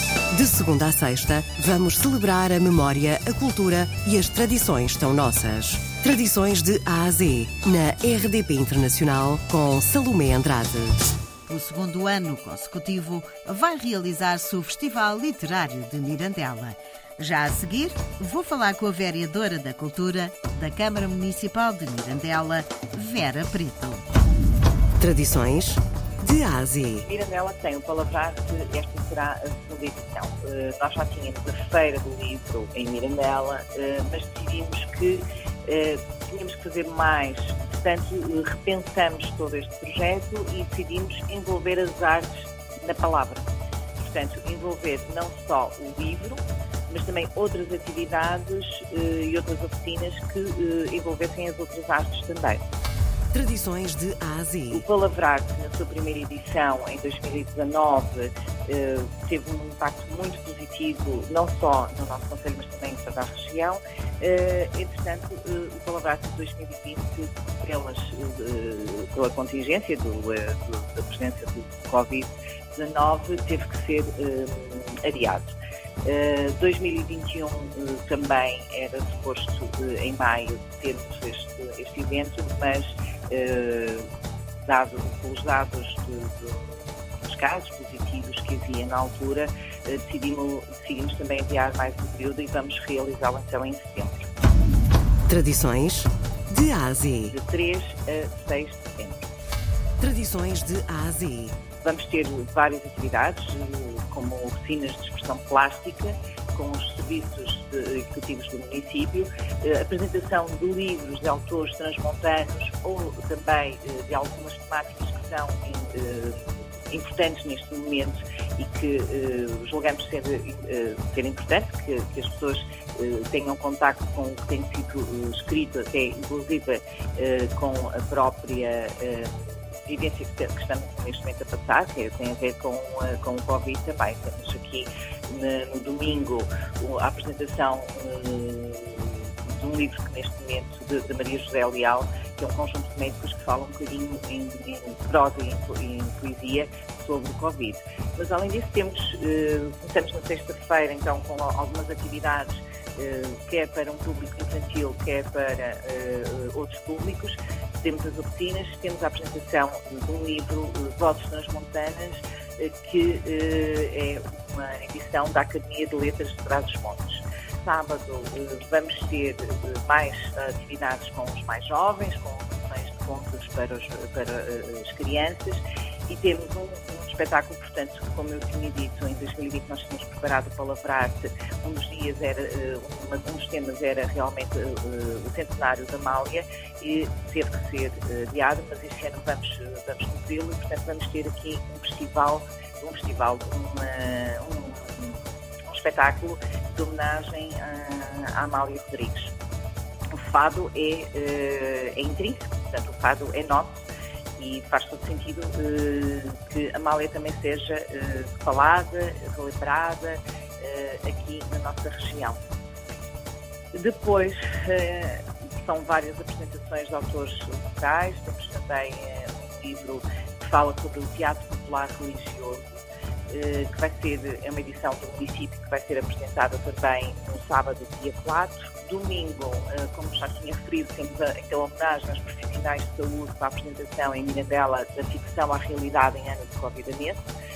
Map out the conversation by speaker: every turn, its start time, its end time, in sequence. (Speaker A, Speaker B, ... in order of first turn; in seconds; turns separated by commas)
Speaker A: 0.3-10.9, Speaker B: 11.5-24.0, Speaker A: 25.0-27.1, Speaker C: 27.0-52.6, Speaker A: 53.3-54.9, Speaker C: 54.7-84.1, Speaker C: 84.7-86.6, Speaker C: 87.2-94.3, Speaker A: 95.3-97.3, Speaker C: 97.3-99.3, Speaker A: 100.0-101.6, Speaker C: 101.8-129.3, Speaker C: 129.9-195.2, Speaker C: 195.7-199.3, Speaker C: 200.2-203.8, Speaker C: 204.4-212.4, Speaker C: 213.7-222.7, Speaker C: 223.3-237.2